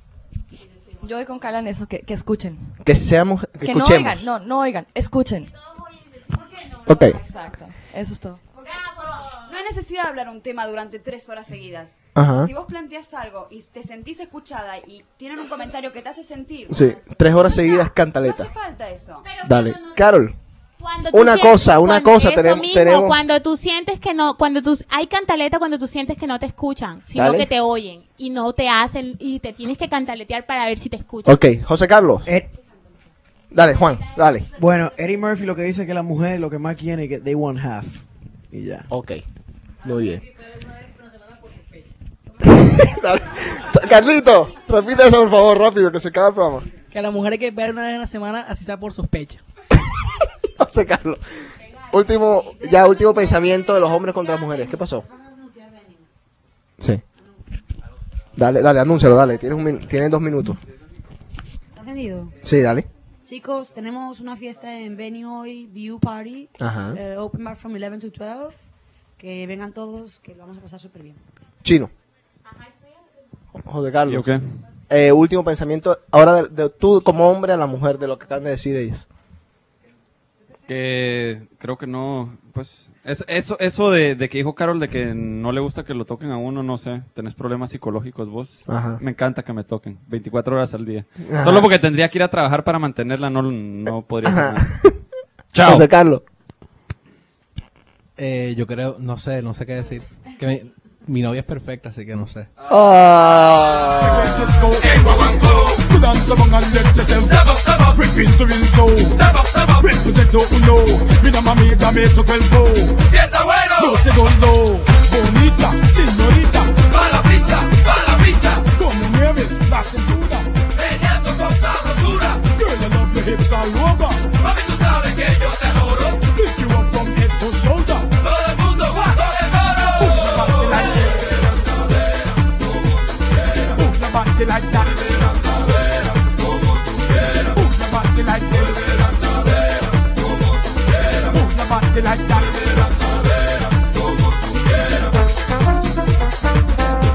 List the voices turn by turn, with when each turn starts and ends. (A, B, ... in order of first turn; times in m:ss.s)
0:01.0-0:02.8 A
0:02.8-0:04.2 B
0:03.6-0:05.5 A
0:05.5-0:07.4 C
0:06.4-0:06.7 D
0:06.9-0:07.2 B
0:07.3-0:08.4 A
0:08.6-0:09.2 D
0:09.0-0:09.4 C
0:09.4-0:19.3 E
0:12.2-0:12.5 B
0:16.7-0:18.5 B
0:19.2-0:20.2 C
0:19.4-0:20.4 B
0:20.8-0:31.4 C
0:21.1-0:23.2 B
0:27.2-0:27.5 B
0:31.2-0:32.3 B
0:33.5-0:34.5 B
0:33.6-0:34.9 C
0:34.6-0:38.9 F
0:38.9-0:39.2 B
0:39.8-0:40.2 B
0:42.4-0:46.7 B
0:42.6-0:43.8 D
0:43.8-0:44.8 C
0:46.9-0:49.4 G
0:50.6-0:51.2 B
0:51.6-0:54.6 C
0:51.9-0:55.0 B
0:54.8-0:56.1 D
0:58.4-1:00.6 B
1:01.7-1:02.4 D
1:02.4-1:02.9 B
1:03.2-1:08.7 D
1:06.6-1:07.0 B
1:09.2-1:11.2 D
1:11.6-1:11.9 B
1:12.4-1:13.0 C
1:13.6-1:14.3 B
1:14.1-1:14.4 H
1:14.9-1:19.1 B
1:20.7-1:34.7 H
1:28.7-1:29.0 B
1:31.2-1:31.7 B
1:34.2-1:35.0 B
1:35.5-1:35.9 H
1:35.6-1:36.2 B
1:38.2-1:42.5 I
1:42.7-1:44.5 B
1:43.9-2:00.5 J
2:01.2-2:08.1 J
2:10.0-2:11.6 J
2:13.8-2:15.4 J
2:17.4-2:19.4 J
2:21.3-2:22.9 J